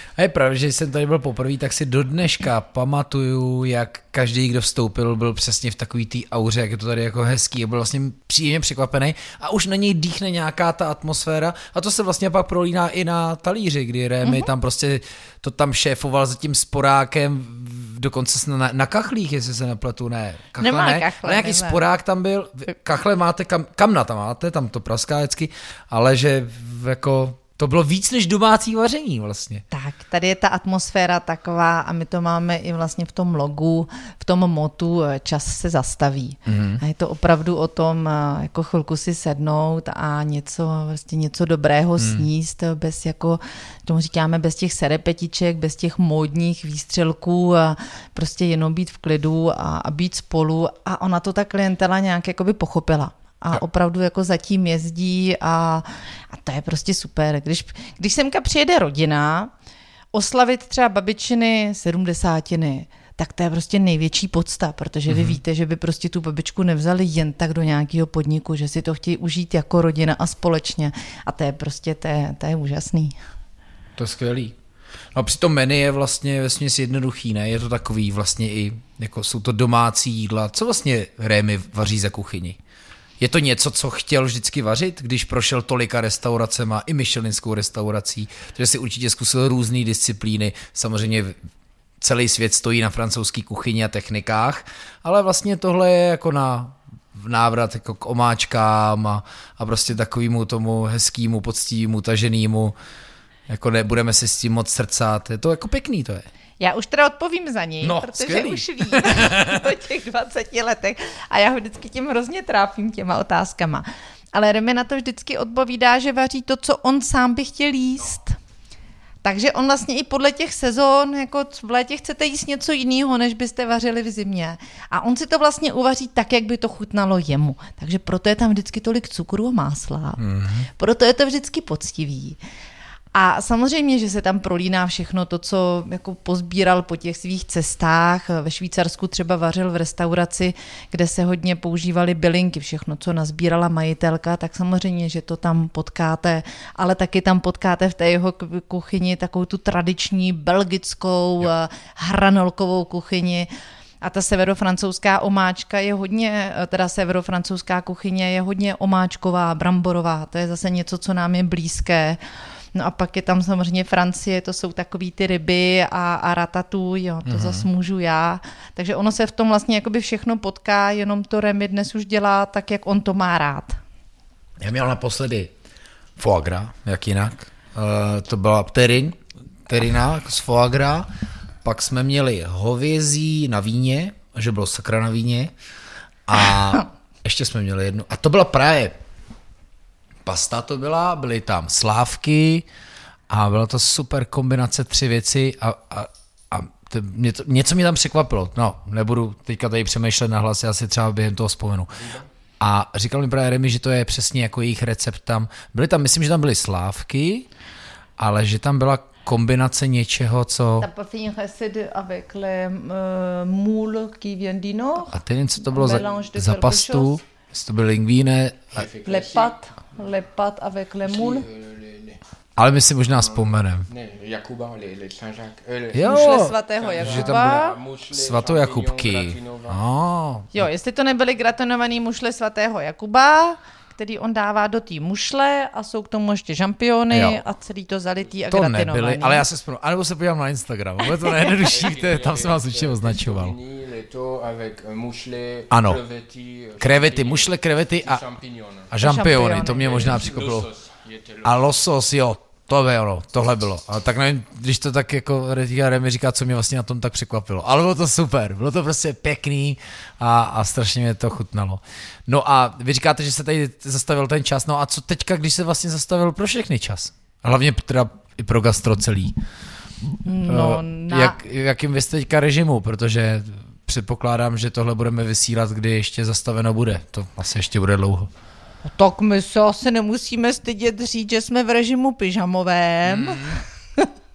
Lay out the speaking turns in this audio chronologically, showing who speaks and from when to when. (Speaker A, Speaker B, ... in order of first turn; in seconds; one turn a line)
Speaker A: 0.2-29.6
Speaker B: 14.2-14.5
Speaker B: 20.6-21.8
Speaker B: 29.7-59.5
Speaker A: 36.5-36.8
Speaker A: 42.0-42.3
Speaker B: 60.1-73.2
Speaker A: 65.1-65.4
Speaker A: 74.0-74.5
Speaker A: 75.1-82.6
Speaker A: 83.2-91.4
Speaker A: 92.0-102.8
Speaker A: 103.5-106.3
Speaker B: 106.6-118.3
Speaker A: 107.8-109.7
Speaker B: 119.2-130.2
Speaker A: 130.2-130.7
Speaker B: 130.8-132.4
Speaker B: 133.1-153.5
Speaker B: 154.0-162.2
Speaker B: 162.7-173.8
Speaker A: 167.3-167.7
Speaker A: 174.6-175.5
Speaker A: 176.2-181.1
Speaker A: 181.6-185.5
Speaker A: 186.3-189.0
Speaker A: 190.2-192.7
Speaker A: 193.3-201.9
Speaker C: 202.0-202.3
Speaker A: 202.6-207.5
Speaker A: 208.2-210.9
Speaker B: 210.8-215.2
Speaker A: 215.1-218.8
Speaker B: 215.7-217.2
Speaker C: 218.7-219.6
Speaker B: 219.1-221.4
Speaker C: 221.1-222.2
Speaker A: 222.6-223.9
Speaker C: 223.1-229.8
Speaker A: 225.9-230.7
Speaker B: 226.0-227.8
Speaker B: 230.5-239.4
Speaker A: 237.1-237.4
Speaker A: 238.5-243.6
Speaker C: 241.6-248.9
Speaker A: 245.7-246.0
Speaker A: 246.8-248.2
Speaker A: 248.9-250.7
Speaker B: 249.0-250.3
Speaker C: 249.8-251.6
Speaker A: 251.4-269.4
Speaker B: 270.2-271.4
Speaker A: 270.5-278.3
Speaker B: 278.8-284.1
Speaker A: 283.1-283.6